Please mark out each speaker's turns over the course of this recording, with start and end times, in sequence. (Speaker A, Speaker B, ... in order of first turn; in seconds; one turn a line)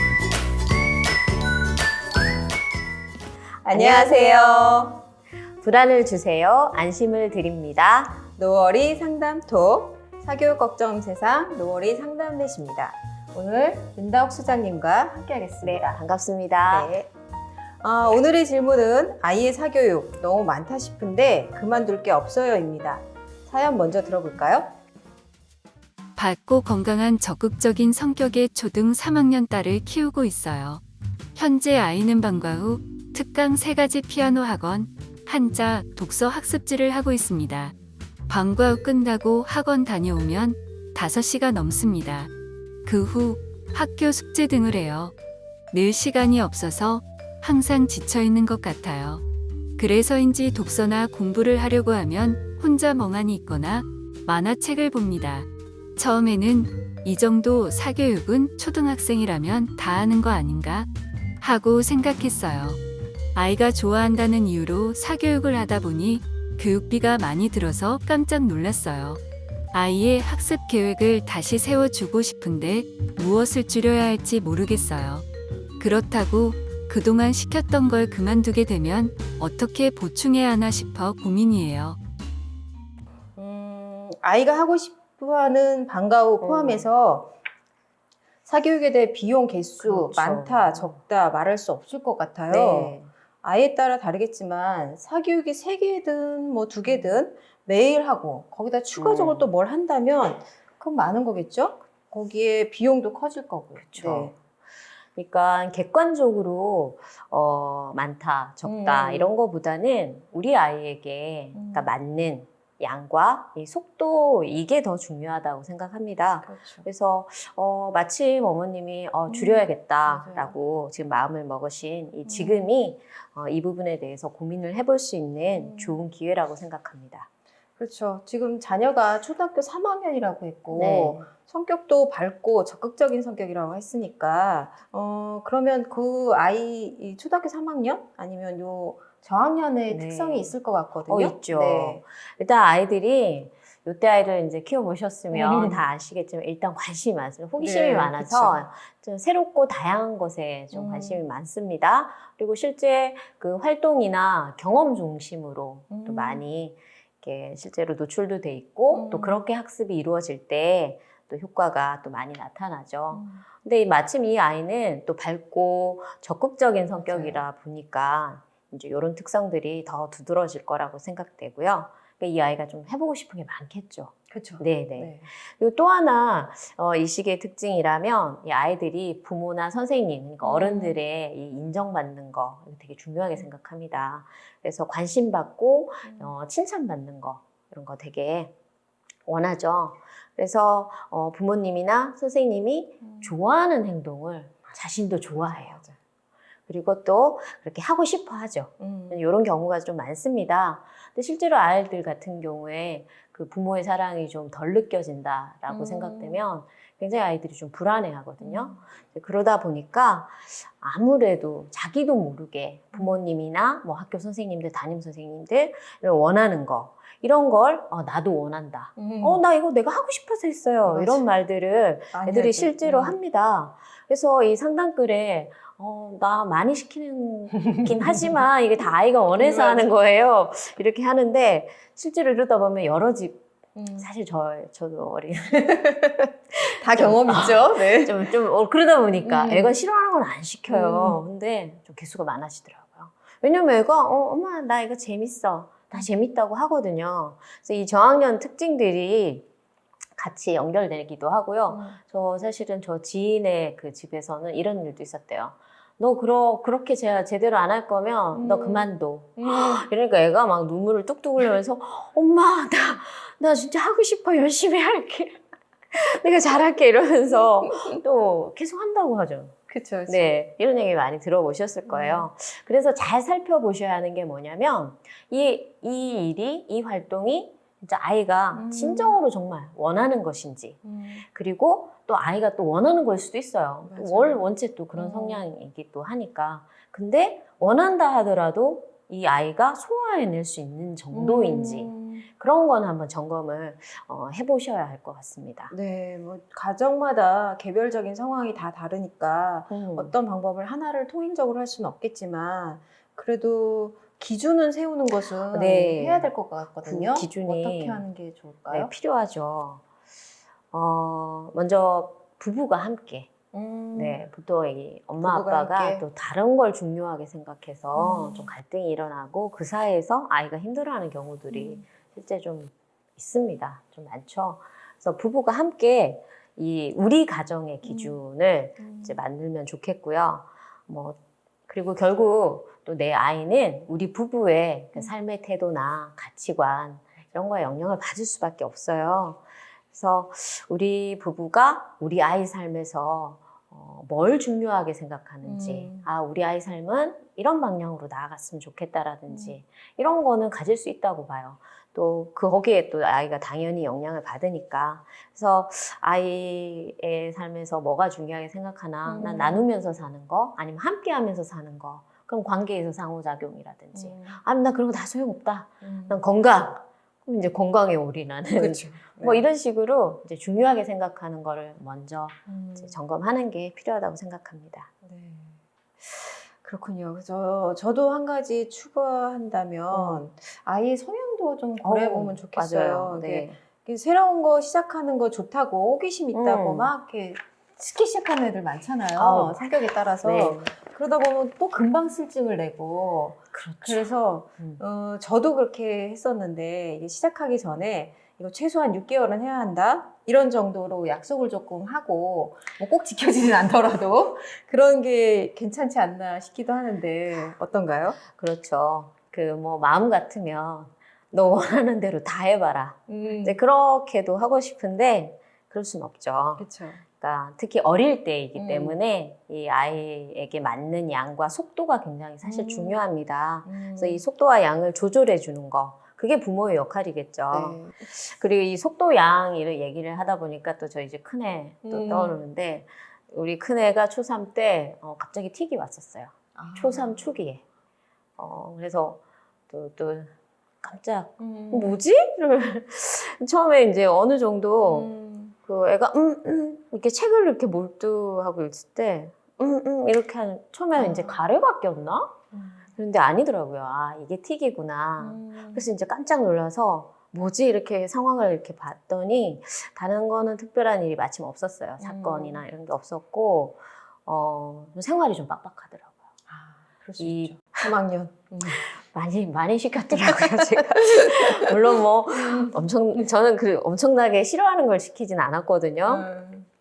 Speaker A: 3.6-5.0
Speaker B: 3.7-5.0
Speaker B: 5.6-8.2
Speaker A: 8.4-16.0
Speaker B: 15.6-17.0
Speaker A: 16.7-17.1
Speaker A: 17.8-24.7
Speaker C: 26.1-30.8
Speaker C: 31.4-37.7
Speaker C: 38.3-42.3
Speaker C: 42.8-45.1
Speaker C: 45.7-49.2
Speaker C: 49.8-60.9
Speaker C: 61.4-62.8
Speaker C: 63.3-69.2
Speaker C: 69.7-75.2
Speaker C: 75.8-82.0
Speaker A: 83.3-87.3
Speaker B: 86.4-86.9
Speaker A: 88.5-104.3
Speaker B: 89.8-91.0
Speaker B: 92.5-93.1
Speaker B: 96.8-97.2
Speaker B: 99.0-99.5
Speaker B: 103.8-104.4
Speaker B: 105.1-127.3
Speaker A: 108.6-109.3
Speaker A: 111.5-111.9
Speaker A: 116.4-116.8
Speaker A: 119.3-120.5
Speaker A: 122.2-122.7
Speaker A: 125.5-126.0
Speaker A: 127.8-142.0
Speaker B: 130.7-131.3
Speaker B: 139.9-140.5
Speaker B: 141.1-188.5
Speaker A: 145.3-145.8
Speaker A: 147.6-148.6
Speaker A: 150.7-151.2
Speaker A: 155.9-156.4
Speaker A: 158.9-159.4
Speaker A: 163.1-163.4
Speaker A: 166.9-167.4
Speaker A: 174.3-175.3
Speaker A: 180.4-181.0
Speaker A: 186.0-186.3
Speaker B: 189.2-195.8
Speaker A: 193.0-193.3
Speaker A: 195.4-195.9
Speaker B: 196.7-233.4
Speaker A: 198.8-199.2
Speaker A: 205.7-206.4
Speaker A: 208.4-208.8
Speaker A: 219.0-219.4
Speaker A: 220.8-221.3
Speaker A: 222.1-223.2
Speaker A: 229.4-229.9
Speaker A: 233.7-234.1
Speaker B: 234.0-235.8
Speaker A: 235.5-238.3
Speaker B: 236.5-249.5
Speaker A: 239.2-239.8
Speaker A: 240.7-241.2
Speaker B: 250.2-265.4
Speaker A: 251.7-252.0
Speaker A: 258.3-259.9
Speaker B: 265.9-269.6
Speaker A: 269.7-270.3
Speaker B: 270.1-295.7
Speaker A: 271.9-272.3
Speaker A: 278.5-279.2
Speaker A: 280.8-281.2
Speaker A: 283.9-285.5
Speaker A: 291.1-292.2
Speaker A: 295.7-308.9
Speaker B: 299.7-300.1
Speaker B: 305.5-306.3
Speaker B: 306.8-308.0
Speaker B: 308.7-309.8
Speaker B: 310.7-313.3
Speaker A: 313.5-314.2
Speaker B: 313.9-374.9
Speaker A: 315.2-316.1
Speaker A: 317.9-318.5
Speaker A: 321.5-321.8
Speaker A: 327.8-328.2
Speaker A: 328.8-329.2
Speaker A: 345.4-346.1
Speaker A: 349.3-349.6
Speaker A: 359.0-359.6
Speaker A: 363.9-364.4
Speaker A: 365.8-366.2
Speaker A: 368.5-369.5
Speaker A: 372.5-372.9
Speaker A: 375.0-408.2
Speaker B: 379.9-380.2
Speaker B: 381.8-383.6
Speaker B: 386.3-386.9
Speaker B: 389.2-389.6
Speaker B: 390.2-390.7
Speaker B: 393.5-394.1
Speaker B: 408.2-437.6
Speaker A: 413.1-413.6
Speaker A: 416.6-417.0
Speaker A: 418.5-419.0
Speaker A: 422.4-423.0
Speaker A: 423.6-424.2
Speaker A: 427.5-428.0
Speaker A: 431.8-432.4
Speaker A: 436.5-437.3
Speaker B: 438.4-445.1
Speaker A: 441.4-442.0
Speaker A: 444.8-445.6
Speaker B: 445.6-452.4
Speaker A: 450.9-451.4
Speaker A: 452.5-452.9
Speaker B: 452.9-466.1
Speaker A: 455.2-455.9
Speaker A: 462.0-462.6
Speaker A: 466.5-468.8
Speaker B: 467.2-467.9
Speaker B: 468.7-476.3
Speaker A: 470.1-471.7
Speaker A: 472.4-472.8
Speaker A: 476.0-476.7